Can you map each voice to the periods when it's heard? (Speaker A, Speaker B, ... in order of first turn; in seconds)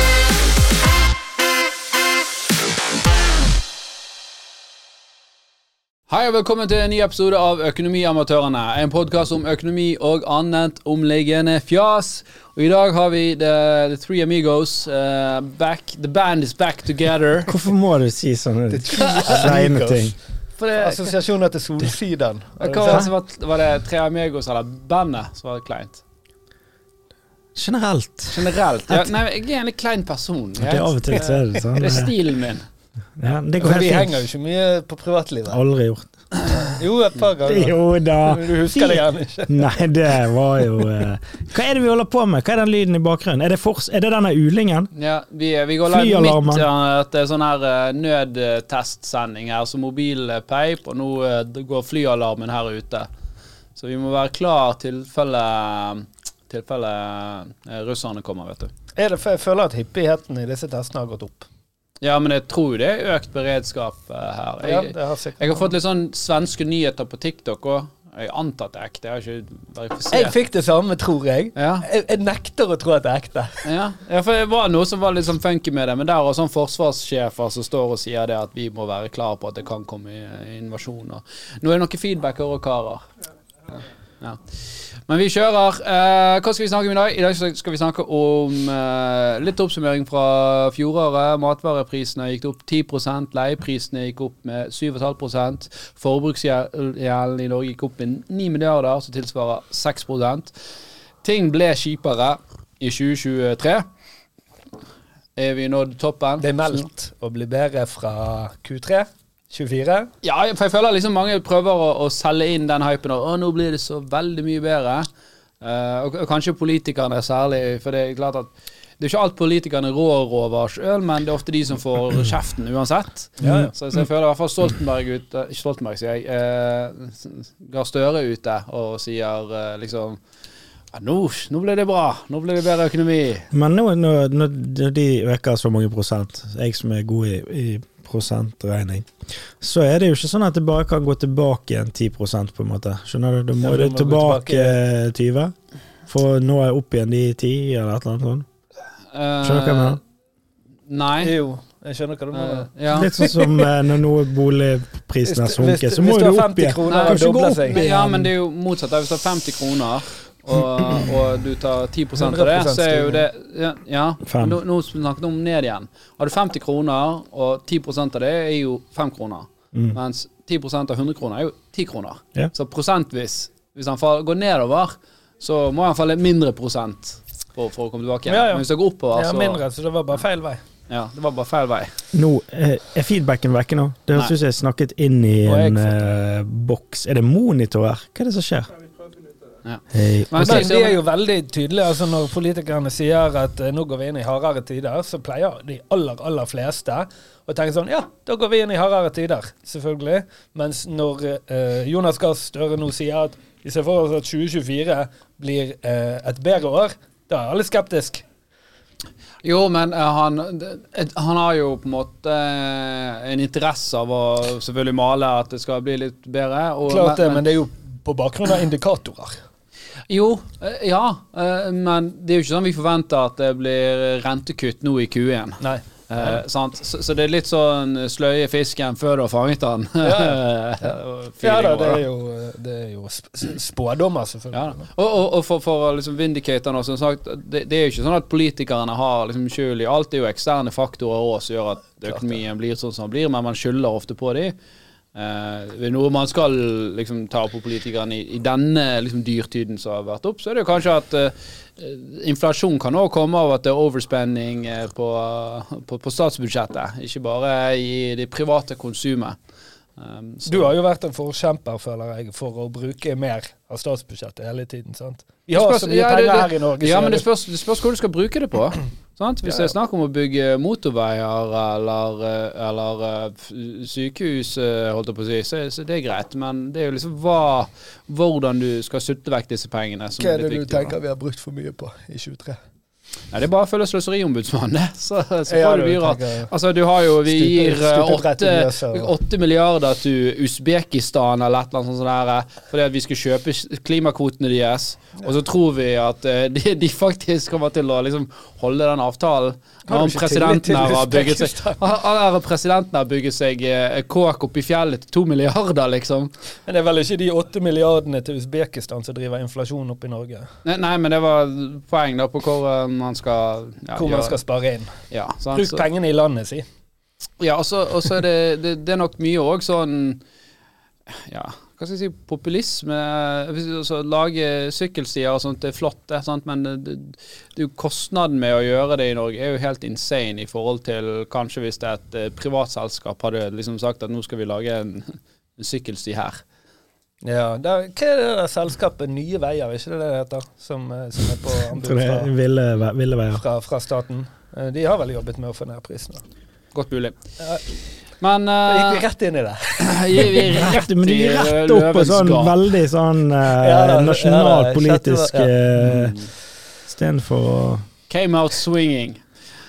Speaker A: 6.1-17.6, 20.6-21.1, 22.6-26.0, 28.3-31.2, 31.8-32.6, 44.9-53.1, 53.8-58.7, 62.0-70.3, 71.5-71.9, 73.6-83.0, 84.2-100.5, 101.2-103.8, 105.3-106.7, 110.2-115.1, 115.6-130.2, 130.9-133.5, 149.1-150.0, 150.9-151.3, 152.3-153.1, 156.9-179.6, 180.9-181.9, 189.6-191.0, 209.4-217.4, 220.1-232.0, 234.5-244.5, 245.1-259.4, 260.0-260.7, 265.5-280.9, 283.3-306.3, 310.6-314.4, 315.1-315.9, 317.4-320.2, 321.1-336.4, 346.7-347.2, 348.2-349.0, 349.8-352.6, 355.8-356.3, 358.1-359.2
Speaker B: 17.5-20.1, 27.5-29.1, 30.6-32.1, 33.2-34.2, 35.5-36.1, 37.4-44.9, 45.9-46.6, 123.4-123.7, 133.5-145.5, 146.1-148.4, 149.4-150.0, 152.9-158.0, 164.2-164.6, 182.1-188.7, 189.9-190.7, 341.7-343.4, 350.5-356.1, 356.9-357.9
Speaker C: 18.7-20.2, 20.8-23.1, 31.2-31.7, 33.6-35.6, 36.5-39.8, 59.0-61.5, 64.6-65.7, 70.1-73.7, 106.4-110.1, 123.4-123.7, 143.6-144.8, 151.2-153.7, 155.2-158.2, 162.2-163.2, 178.3-180.6, 185.4-186.1, 190.4-208.2, 216.9-219.4, 225.6-226.4, 230.0-234.9, 242.1-242.4, 260.5-267.2, 269.4-269.7, 280.2-282.6, 285.5-286.5, 287.2-289.1, 299.9-301.8, 306.6-310.5, 313.9-315.0, 315.5-316.6, 337.2-342.3, 343.3-346.2, 348.6-350.4, 353.5-355.5